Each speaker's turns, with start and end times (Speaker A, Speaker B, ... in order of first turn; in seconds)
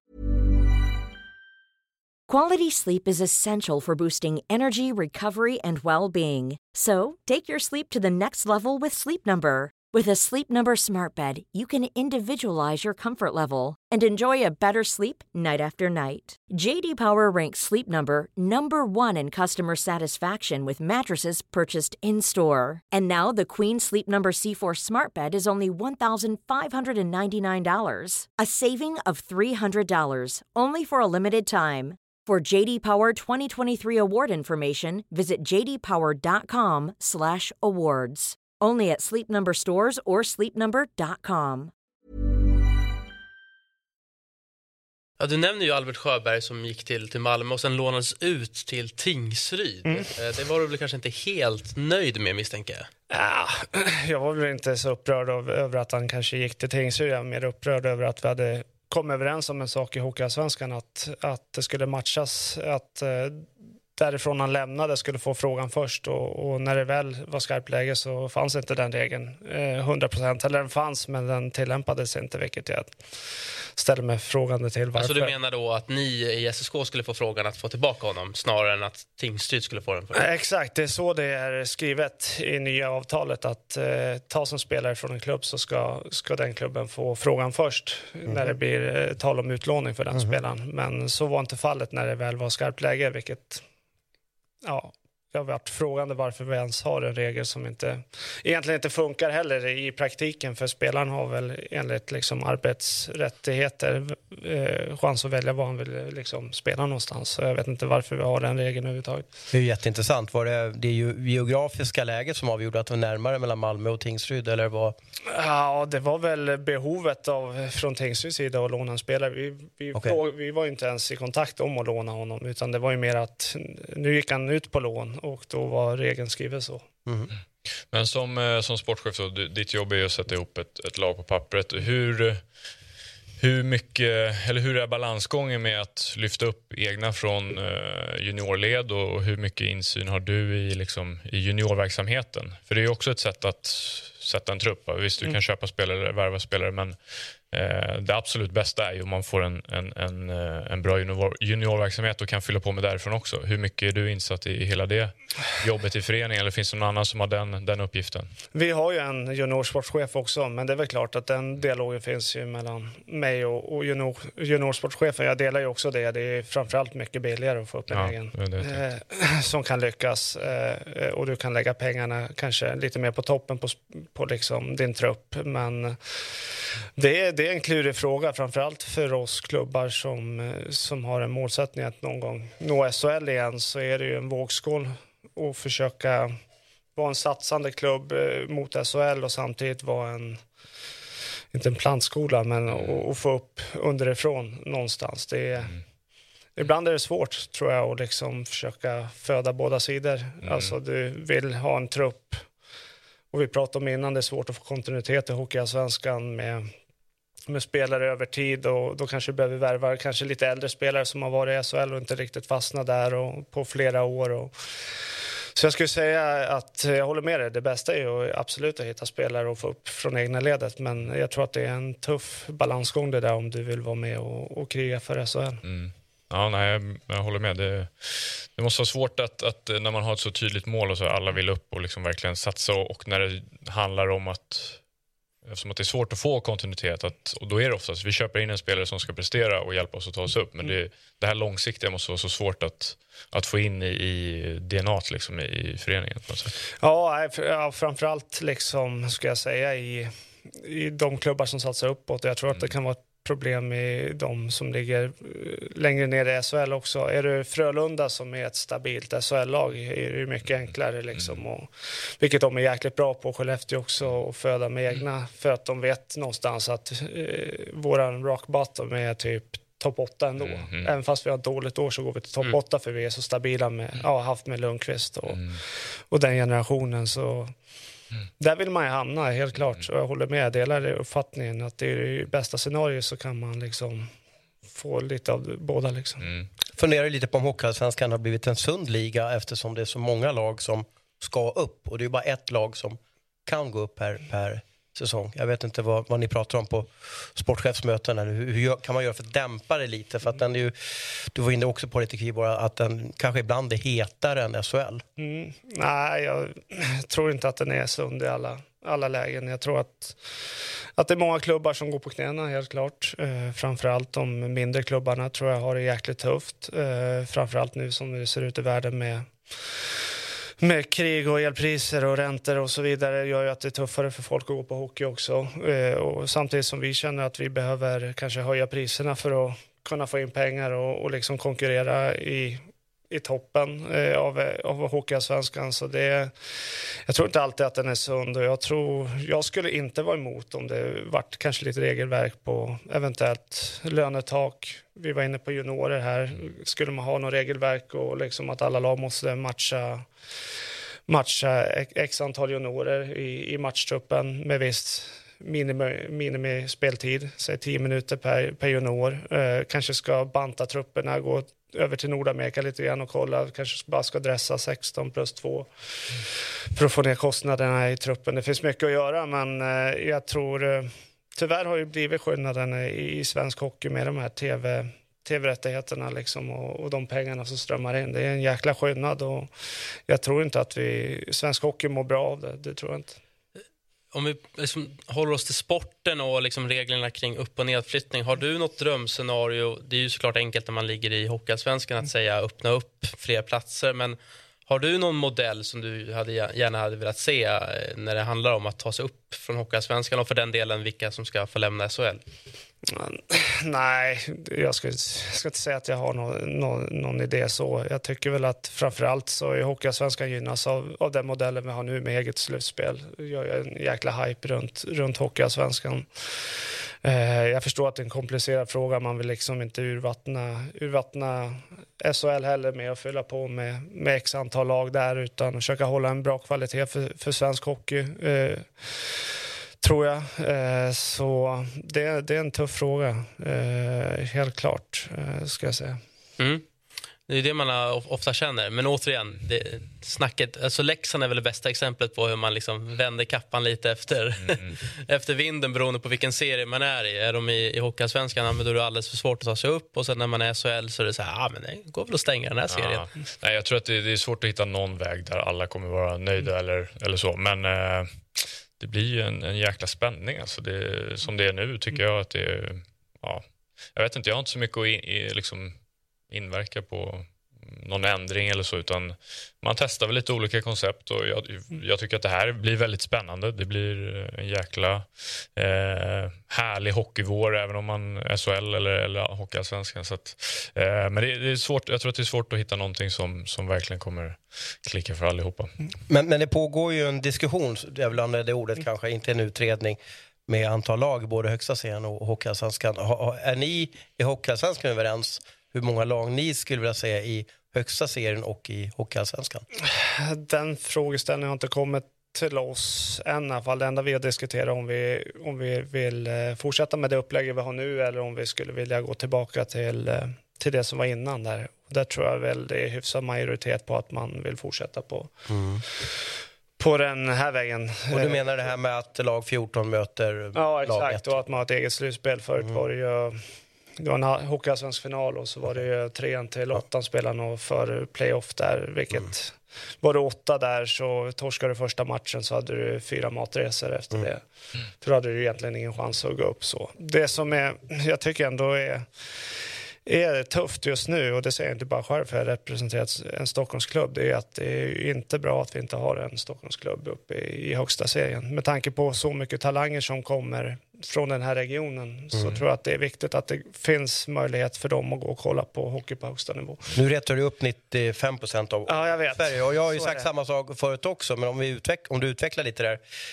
Speaker A: 2.3-41.7
Speaker B: 45.2-52.9, 75.0-80.2, 384.1-402.2, 436.4-436.6, 437.3-453.1
Speaker C: 53.1-73.1, 73.8-75.3, 80.1-93.6, 94.6-109.2, 115.3-126.8, 158.5-186.3, 186.9-190.4, 191.5-195.8, 196.6-202.5, 203.3-206.7, 207.5-214.5, 215.6-225.6, 246.8-277.5, 278.4-284.1, 284.7-286.3, 305.2-319.9, 320.6-336.3, 337.1-350.1, 351.1-379.5, 380.1-383.2, 402.9-429.3, 429.8-436.0, 499.8-515.5, 516.8-518.4, 520.5-523.4, 524.0-534.4, 535.0-539.4, 540.0-557.0, 558.9-560.3
Speaker D: 109.5-115.0, 286.8-305.0, 486.1-499.6, 515.5-515.8, 518.1-521.3, 557.0-563.0
Speaker E: 127.9-132.5, 133.4-158.3, 167.9-168.8, 200.4-200.7, 225.6-234.8, 235.4-246.6, 270.4-270.9, 275.3-275.6, 286.2-286.5, 444.4-444.8, 452.7-465.8, 466.3-485.9